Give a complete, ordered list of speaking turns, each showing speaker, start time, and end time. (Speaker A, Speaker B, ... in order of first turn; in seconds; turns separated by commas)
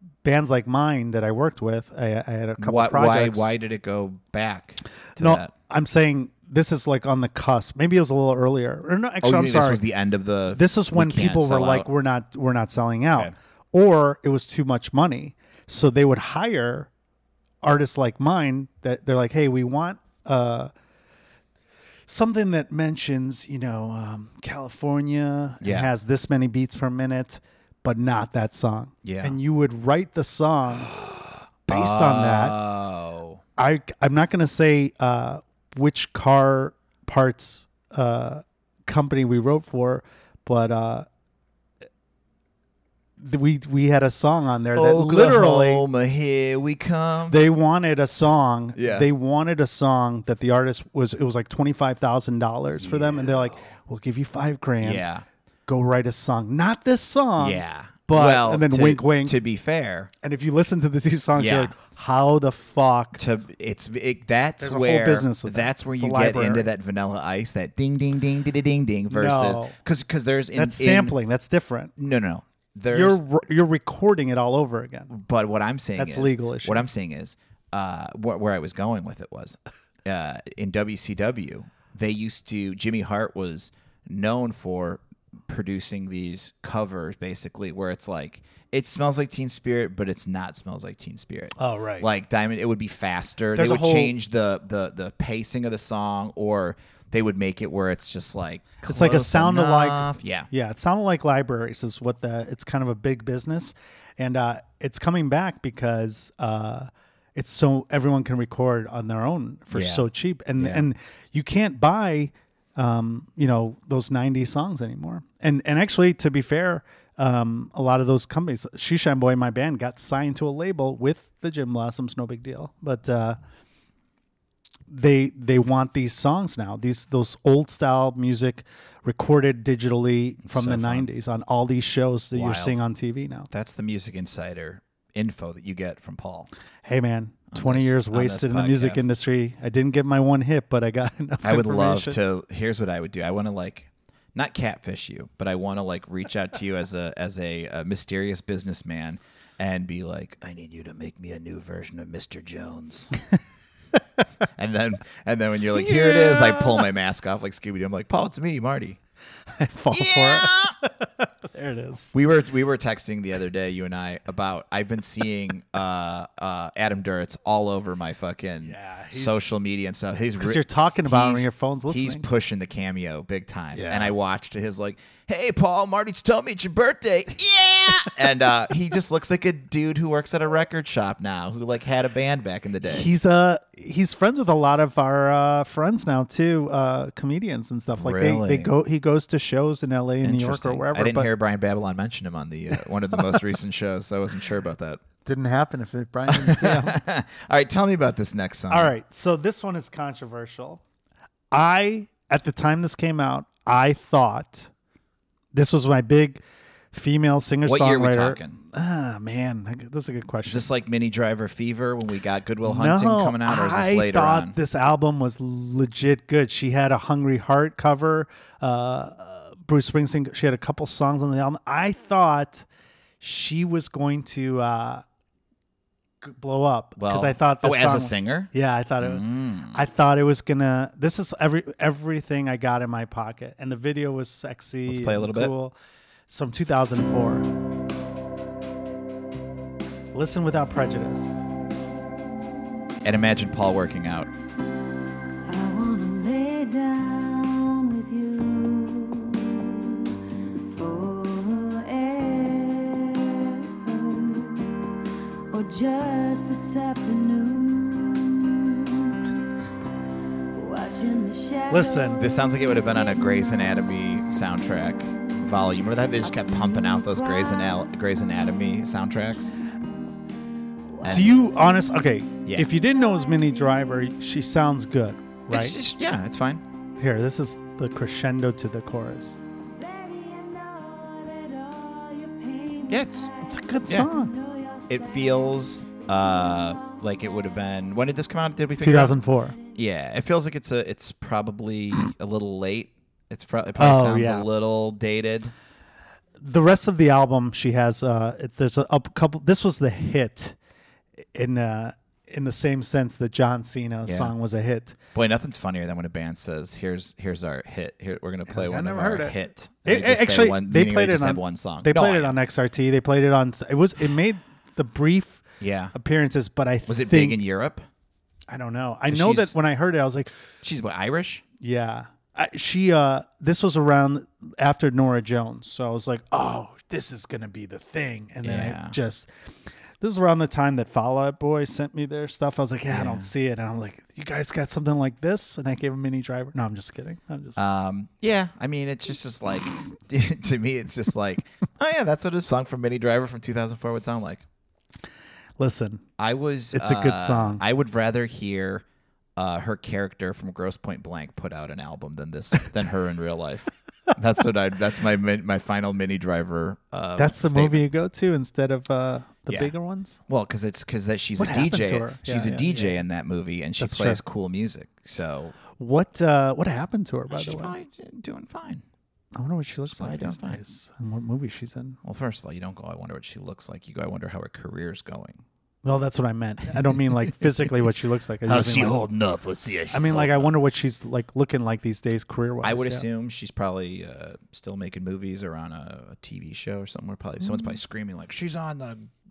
Speaker A: 0.2-3.5, Speaker B: 2.6-5.5, Speaker A: 5.2-9.8, Speaker B: 9.2-11.9, Speaker A: 10.5-16.9, Speaker A: 17.6-20.7, Speaker A: 22.1-30.9, Speaker B: 25.6-25.9, Speaker B: 29.0-29.4, Speaker B: 30.7-33.4, Speaker A: 31.7-32.6, Speaker A: 33.6-41.1, Speaker A: 43.2-45.9, Speaker B: 44.8-47.5, Speaker A: 47.3-55.1, Speaker B: 48.8-49.1, Speaker B: 52.8-53.7, Speaker B: 54.8-55.2, Speaker A: 55.7-59.4, Speaker B: 57.4-60.1, Speaker A: 60.2-63.2, Speaker B: 61.4-61.7, Speaker B: 63.2-71.2, Speaker A: 64.6-66.7, Speaker A: 69.1-69.8, Speaker A: 70.5-71.9, Speaker B: 72.0-73.2, Speaker A: 72.9-75.1, Speaker B: 75.1-100.5, Speaker A: 76.0-76.9, Speaker A: 91.6-92.1, Speaker A: 93.5-94.1, Speaker A: 98.8-123.4, Speaker B: 109.7-110.8, Speaker A: 124.9-133.5, Speaker B: 130.4-131.1, Speaker B: 132.3-132.8, Speaker B: 133.5-136.5, Speaker A: 136.8-142.2, Speaker B: 137.5-139.1, Speaker B: 141.4-153.2, Speaker B: 154.6-159.0, Speaker A: 155.7-156.9, Speaker A: 159.5-162.1, Speaker B: 159.9-160.8, Speaker B: 162.1-183.1, Speaker A: 168.6-169.4, Speaker A: 170.4-172.3, Speaker A: 173.7-174.1, Speaker A: 182.8-191.3, Speaker B: 188.0-188.7, Speaker B: 190.2-195.0, Speaker A: 193.1-193.4, Speaker A: 195.2-197.0, Speaker B: 196.3-198.9, Speaker A: 198.7-200.8, Speaker A: 201.5-204.7, Speaker A: 205.5-210.7, Speaker B: 207.7-208.6, Speaker B: 210.5-214.6, Speaker A: 212.6-222.7, Speaker A: 223.2-225.1, Speaker A: 226.2-235.8, Speaker B: 227.0-229.8, Speaker B: 234.9-235.5, Speaker A: 236.3-237.5, Speaker A: 240.1-241.4, Speaker B: 243.0-244.3, Speaker C: 245.4-255.0, Speaker C: 255.5-259.2, Speaker C: 260.5-263.6, Speaker A: 261.7-262.2, Speaker B: 262.2-269.5, Speaker C: 266.2-268.3, Speaker C: 270.9-271.9, Speaker B: 271.0-271.4, Speaker A: 271.1-275.8, Speaker B: 272.4-272.7, Speaker C: 272.9-273.9, Speaker B: 275.5-276.6, Speaker A: 277.0-279.4, Speaker C: 279.7-285.6, Speaker B: 282.9-283.3, Speaker A: 283.4-284.3, Speaker B: 284.9-289.2, Speaker C: 286.4-287.3, Speaker A: 288.8-289.6, Speaker B: 289.7-295.5, Speaker A: 293.8-294.5, Speaker A: 296.4-300.6, Speaker A: 301.3-305.0, Speaker B: 304.1-304.3, Speaker B: 305.1-312.4, Speaker A: 308.5-315.4, Speaker B: 315.6-315.9, Speaker A: 315.9-317.4, Speaker B: 316.9-317.9, Speaker A: 318.5-320.3, Speaker B: 319.1-319.5, Speaker B: 320.6-321.4, Speaker A: 321.6-329.3, Speaker B: 328.4-329.0, Speaker A: 330.0-337.6, Speaker B: 332.9-333.3, Speaker B: 337.6-344.4, Speaker A: 345.6-346.1, Speaker B: 346.2-348.9, Speaker A: 346.7-347.6, Speaker B: 349.4-357.8, Speaker A: 357.2-360.2, Speaker B: 359.5-359.7, Speaker B: 360.3-365.6, Speaker A: 361.4-363.0, Speaker A: 363.8-364.2, Speaker A: 365.7-367.7, Speaker B: 367.3-368.8, Speaker A: 369.4-372.0, Speaker B: 369.9-370.6, Speaker B: 372.0-375.4, Speaker A: 375.8-379.0, Speaker B: 378.5-380.5, Speaker A: 379.9-383.1, Speaker B: 382.6-389.1